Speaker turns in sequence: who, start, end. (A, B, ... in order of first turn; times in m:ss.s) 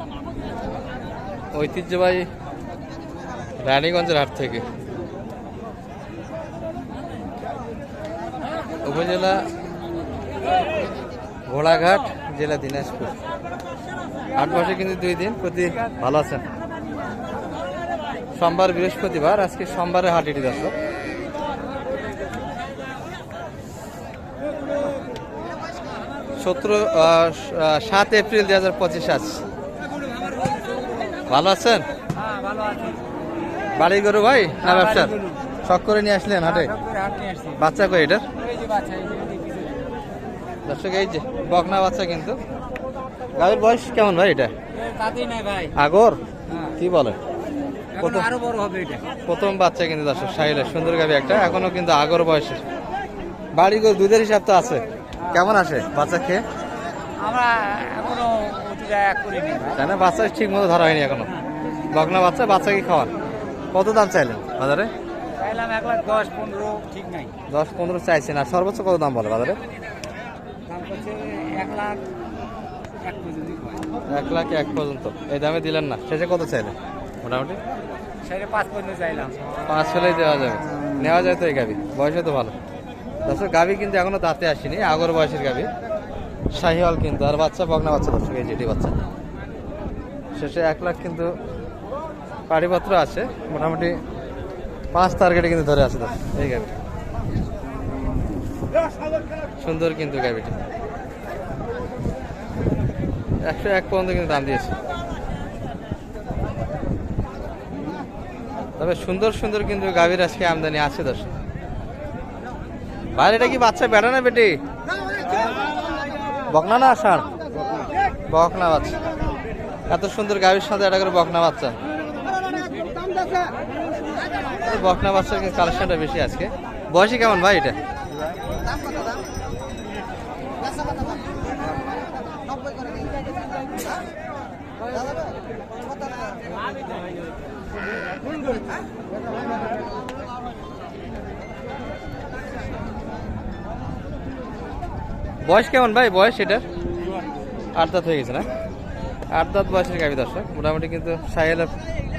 0:01.5-0:02.3 A
0:03.6-0:04.7 A
0:08.8-0:09.4 A
0:11.5-0:13.2 A
0:14.4-0:16.4 A
0:18.4-0:20.7 A
0:26.4-0:29.4 A
0:31.3-0:31.8 A
0:32.2-0:33.0 B
0:33.8-0:36.8 A
0:34.7-0:35.4 B
0:36.4-0:37.6 B
0:37.6-0:38.3 A
0:38.4-0:39.8 B
0:40.7-0:42.4 A
0:43.3-0:44.5 A
0:44.8-0:45.7 B
0:45.7-0:47.2 A
0:48.0-0:48.3 A
0:48.1-0:49.1 B
0:49.3-0:52.6 A
0:53.6-0:56.4 A
0:57.2-0:59.8 B
0:59.8-1:01.3 A
1:01.9-1:03.1 A
1:03.7-1:04.9 A
1:05.4-1:07.3 B
1:07.5-1:09.6 A
1:10.7-1:12.0 B
1:13.0-1:13.8 B
1:14.1-1:17.6 A
1:18.2-1:19.5 B
1:19.6-1:22.6 A
1:23.2-1:25.7 A
1:26.5-1:29.0 A
1:30.4-1:31.3 A
1:32.5-1:34.0 A
1:34.9-1:36.7 A
1:39.6-1:40.6 A
1:43.4-1:44.8 A
1:48.8-1:51.3 A
1:53.2-1:54.6 A
1:56.5-1:57.3 A
1:58.3-1:59.0 A
1:59.9-2:01.8 A
2:04.6-2:07.8 A
2:08.6-2:09.2 B
2:10.6-2:13.4 B
2:14.9-2:16.7 B
2:25.4-2:26.6 A
2:27.8-2:28.5 A
2:29.3-2:31.8 A